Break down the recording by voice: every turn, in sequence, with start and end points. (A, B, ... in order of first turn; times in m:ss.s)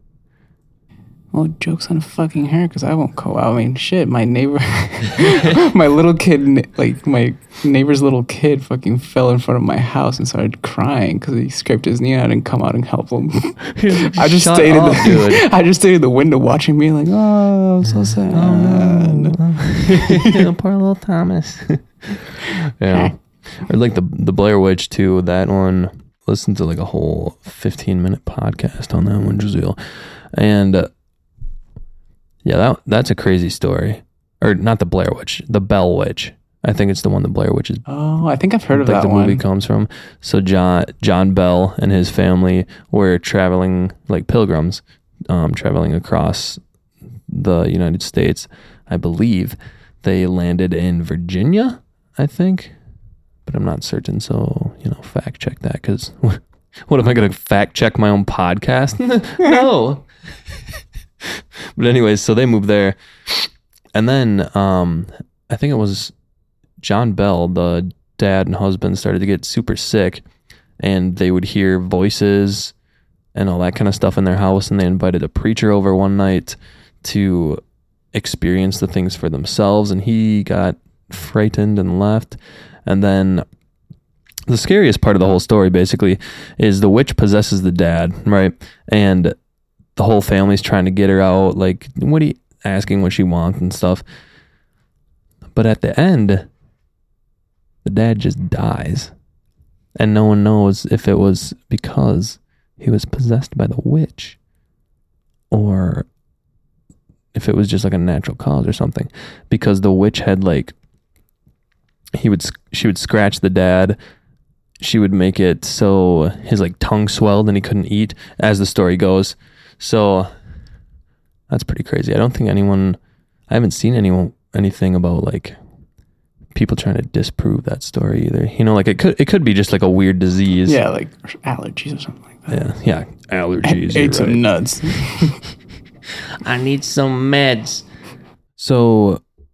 0:01.3-0:20.4 A
0:13.7-0:15.4 B
0:17.8-0:30.9 B
0:22.5-0:23.1 A
0:32.4-0:37.8 B
0:37.9-0:39.4 A
0:38.7-0:46.6 B
0:47.3-0:52.8 B
0:53.4-1:06.1 B
1:06.8-1:10.2 B
1:10.8-1:12.8 B
1:13.4-1:17.6 B
1:18.1-1:23.4 B
1:24.5-1:29.4 B
1:30.0-1:34.0 B
1:35.5-1:36.5 B
1:37.8-1:39.1 B
1:40.0-1:44.4 B
1:45.5-1:46.1 B
1:47.3-1:50.8 B
1:52.2-1:54.0 B
1:54.8-2:00.3 B
2:01.5-2:03.0 B
2:03.5-2:05.6 B
2:06.5-2:10.8 B
2:10.7-2:12.6 A
2:12.5-2:15.0 B
2:13.6-2:15.5 A
2:16.1-2:17.9 B
2:18.6-2:19.2 B